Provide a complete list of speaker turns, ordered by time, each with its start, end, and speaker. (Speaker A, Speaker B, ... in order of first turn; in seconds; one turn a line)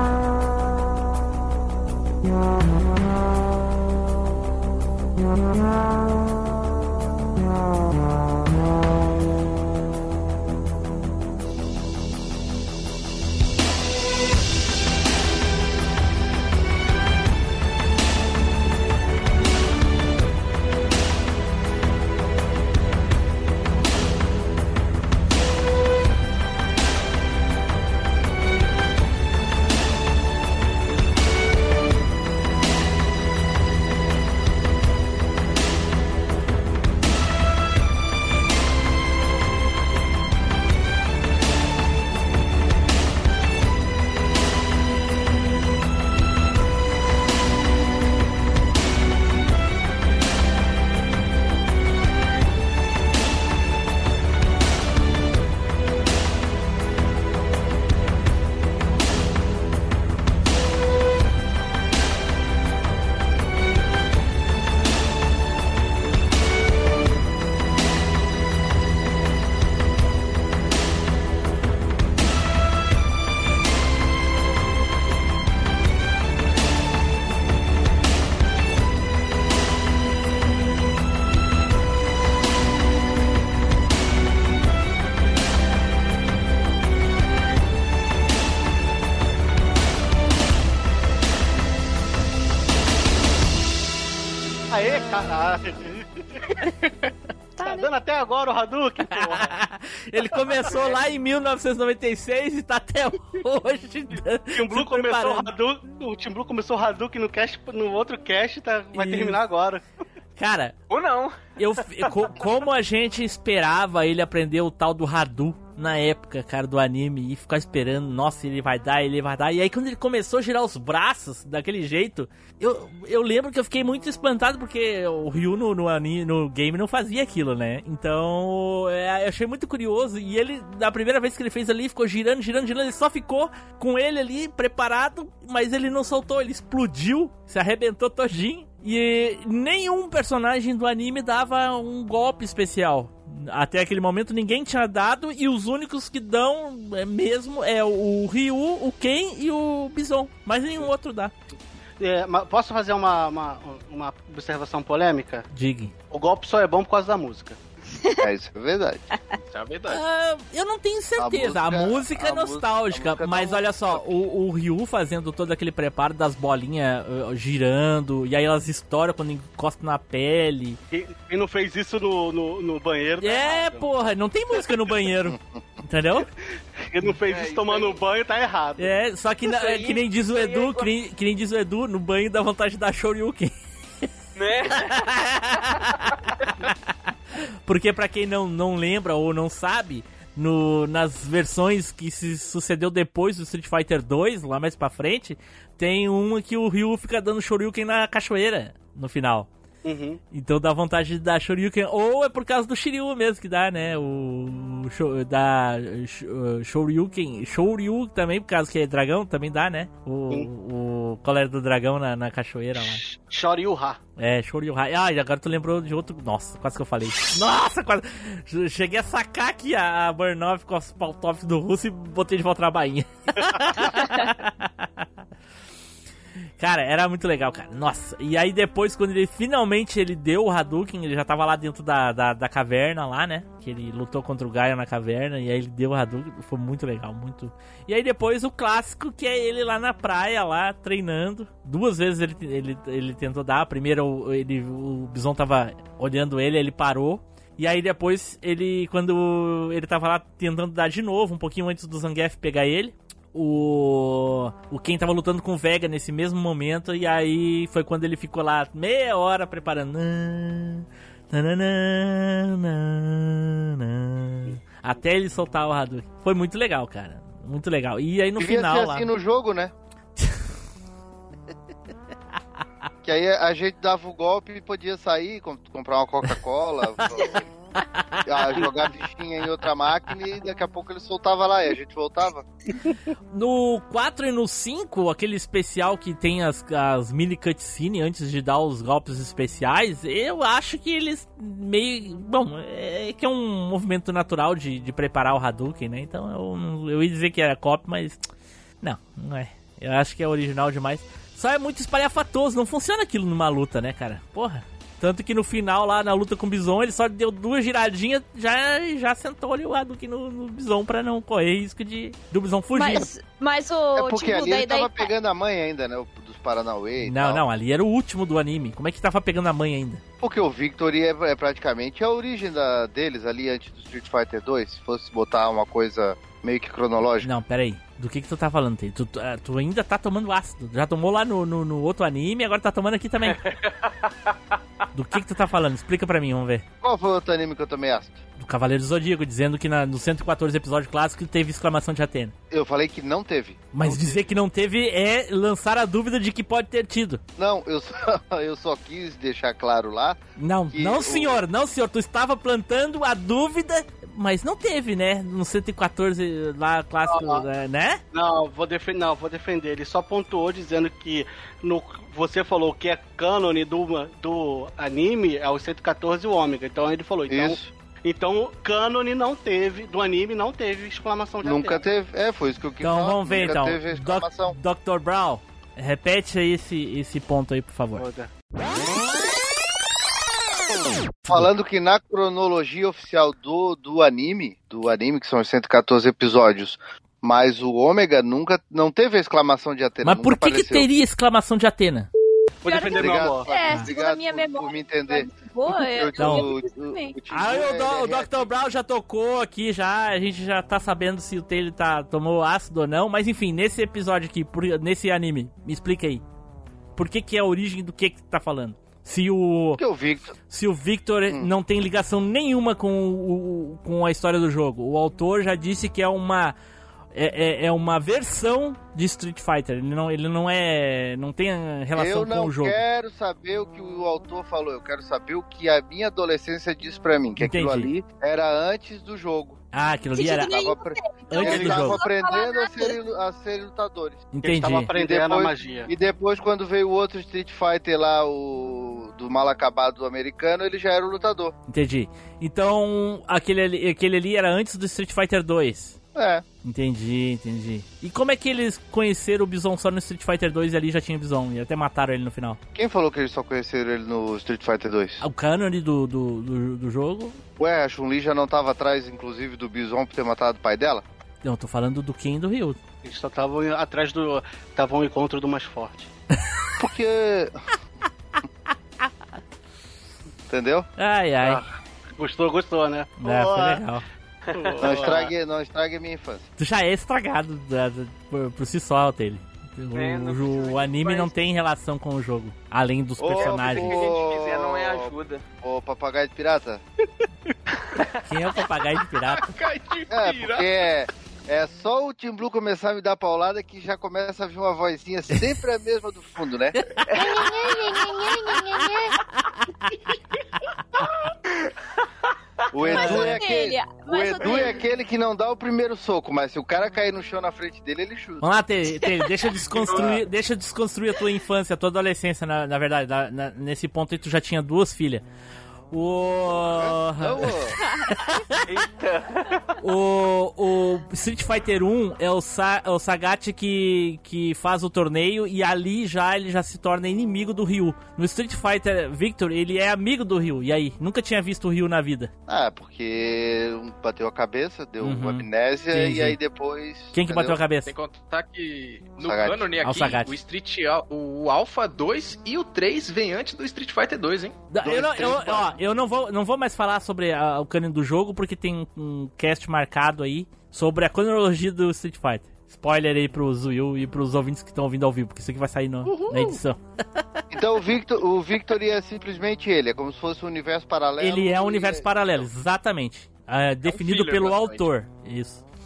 Speaker A: 94.7-96.3
Speaker B: 97.5-97.9
Speaker A: 97.6-99.5
Speaker C: 99.1-105.5
Speaker A: 100.2-100.9
Speaker A: 104.5-109.8
Speaker C: 108.9-109.4
Speaker C: 110.4-110.7
Speaker D: 110.9-111.4
Speaker C: 111.6-151.3
Speaker A: 152.0-155.4
Speaker C: 155.5-155.9
Speaker A: 156.1-157.6
Speaker E: 158.2-159.0
Speaker F: 159.5-160.0
Speaker C: 159.9-170.8
Speaker E: 161.2-164.1
Speaker A: 170.9-173.8
Speaker C: 173.2-176.3
Speaker E: 175.3-175.6
Speaker A: 176.9-178.9
Speaker D: 177.3-178.0
Speaker C: 178.8-183.5
Speaker D: 179.5-180.9
Speaker D: 184.3-185.0
Speaker C: 184.8-186.1
Speaker C: 187.7-199.5
Speaker A: 199.8-200.2
Speaker C: 200.3-213.0
Speaker A: 212.8-214.0
Speaker C: 214.2-225.0
Speaker C: 226.6-269.1
Speaker E: 268.4-269.7
Speaker E: 273.0-277.4
Speaker C: 277.8-278.7
Speaker E: 278.2-282.4
Speaker C: 283.3-298.2
Speaker C: 298.8-313.1
Speaker B: 312.7-315.1
Speaker E: 313.9-317.4
Speaker C: 317.0-320.0
Speaker E: 320.2-327.3
Speaker C: 327.2-333.4
Speaker D: 333.4-334.1
Speaker C: 334.9-336.6
Speaker E: 336.8-338.2
Speaker C: 338.4-342.3
Speaker E: 342.5-344.2
Speaker C: 343.7-347.2
Speaker E: 347.4-350.2
Speaker C: 350.4-358.0
Speaker E: 350.7-351.4
Speaker A: 357.1-357.4
Speaker A: 358.1-371.8
Speaker E: 367.3-367.7
Speaker E: 371.4-374.6
Speaker C: 372.8-378.1
Speaker A: 378.0-378.3
Speaker E: 381.3-390.9
Speaker C: 390.0-392.1
Speaker A: 392.6-393.4
Speaker B: 392.6-397.2
Speaker E: 392.9-398.5
Speaker C: 396.2-396.5
Speaker C: 397.3-406.2
Speaker C: 406.9-409.8
Speaker E: 409.8-410.3
Speaker C: 410.5-416.5
Speaker C: 417.1-422.8
Speaker E: 421.9-429.6
Speaker C: 427.4-427.9
Speaker C: 429.7-430.6
Speaker B: 430.1-433.0
Speaker E: 430.4-434.3
Speaker C: 431.3-432.0
Speaker C: 434.3-434.9
Speaker A: 434.4-435.9
Speaker E: 434.9-441.5
Speaker C: 441.7-446.0
Speaker E: 446.1-446.4
Speaker C: 446.6-452.6
Speaker E: 452.7-455.2
Speaker C: 455.2-457.4
Speaker E: 457.6-461.0
Speaker C: 461.4-462.8
Speaker A: 463.0-466.1
Speaker E: 466.8-467.5
Speaker E: 470.5-470.9
Speaker C: 471.0-471.6
Speaker A: 472.2-473.8
Speaker C: 473.2-474.0
Speaker D: 474.4-475.2
Speaker A: 474.5-475.3
Speaker E: 474.8-476.5
Speaker C: 476.6-484.1
Speaker D: 479.9-481.3
Speaker E: 483.2-486.8
Speaker D: 483.4-485.4
Speaker C: 488.2-489.5
Speaker F: 489.3-490.7
Speaker E: 490.1-496.8
Speaker B: 497.1-499.2
Speaker E: 502.7-508.4
Speaker B: 502.9-504.9
Speaker C: 502.9-503.4
Speaker C: 508.4-515.2
Speaker E: 509.8-510.1
Speaker D: 509.9-510.1
Speaker C: 515.9-517.6
Speaker E: 516.5-517.7
Speaker B: 517.8-518.2
Speaker D: 518.7-519.6
Speaker C: 519.8-532.3
Speaker E: 532.5-537.6
Speaker C: 535.0-536.4
Speaker C: 537.1-537.9
Speaker F: 537.8-544.6
Speaker E: 539.2-539.7
Speaker C: 539.8-540.3
Speaker C: 544.7-557.2
Speaker E: 544.8-545.7
Speaker E: 557.5-562.4
Speaker C: 561.2-565.6
Speaker F: 563.9-564.8